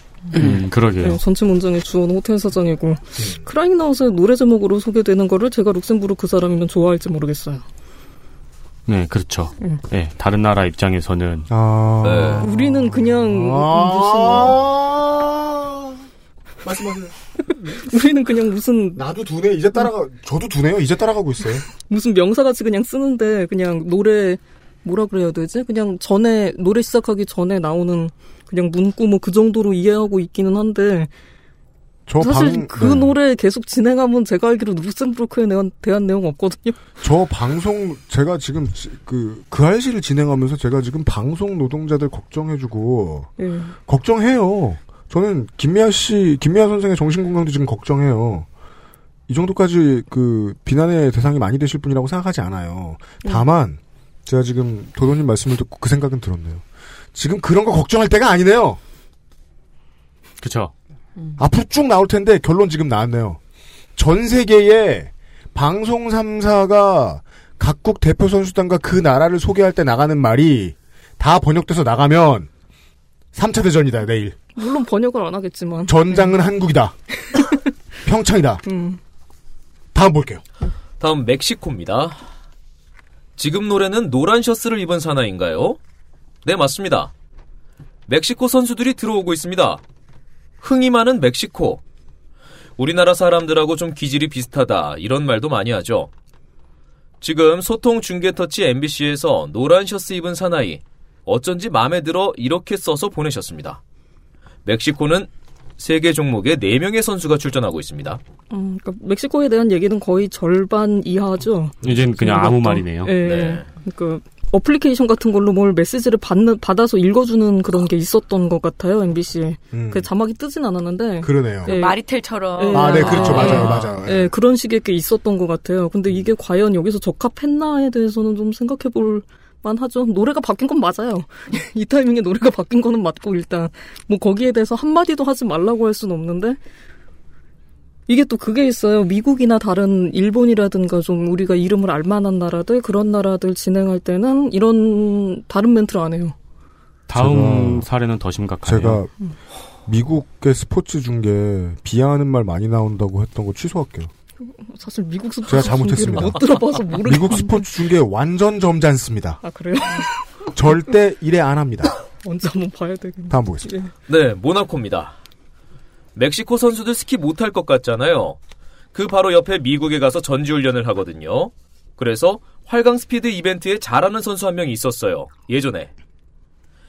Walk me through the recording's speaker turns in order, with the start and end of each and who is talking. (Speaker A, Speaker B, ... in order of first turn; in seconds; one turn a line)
Speaker A: 0.3-1.2
Speaker B: 1.0-7.6
Speaker A: 8.9-11.5
Speaker C: 11.5-16.0
Speaker D: 12.0-12.5
Speaker B: 12.4-14.6
Speaker C: 16.6-17.1
Speaker B: 17.6-19.0
Speaker C: 19.0-21.7
Speaker B: 21.8-31.1
Speaker C: 32.1-33.2
Speaker B: 32.2-36.8
Speaker C: 37.0-43.3
Speaker B: 43.4-43.8
Speaker C: 43.9-48.5
Speaker C: 49.3-56.6
Speaker C: 57.1-58.8
Speaker A: 60.4-60.7
Speaker C: 61.4-63.4
Speaker C: 64.0-72.5
Speaker C: 73.3-74.4
Speaker B: 74.6-76.2
Speaker C: 75.9-77.0
Speaker C: 78.0-78.6
Speaker B: 78.7-79.0
Speaker C: 79.9-80.4
Speaker D: 81.0-82.2
Speaker D: 83.4-85.8
Speaker D: 86.5-87.1
Speaker D: 88.1-89.8
Speaker D: 90.6-91.8
Speaker D: 92.8-96.1
Speaker D: 97.2-103.8
Speaker D: 104.7-108.2
Speaker B: 108.5-122.0
Speaker A: 111.8-113.2
Speaker D: 113.2-113.7
Speaker C: 119.7-120.1
Speaker C: 121.2-121.7
Speaker E: 121.7-123.8
Speaker B: 122.6-136.6
Speaker C: 122.7-124.3
Speaker B: 138.1-146.3
Speaker A: 147.1-149.0
Speaker C: 147.1-147.9
Speaker C: 148.6-149.1
Speaker C: 149.9-154.1
Speaker B: 154.6-157.7
Speaker C: 155.5-159.4
Speaker B: 159.4-160.1
Speaker C: 160.5-161.9
Speaker B: 162.2-163.9
Speaker C: 163.3-163.7
Speaker D: 164.1-165.2
Speaker D: 166.2-168.4
Speaker D: 168.9-175.9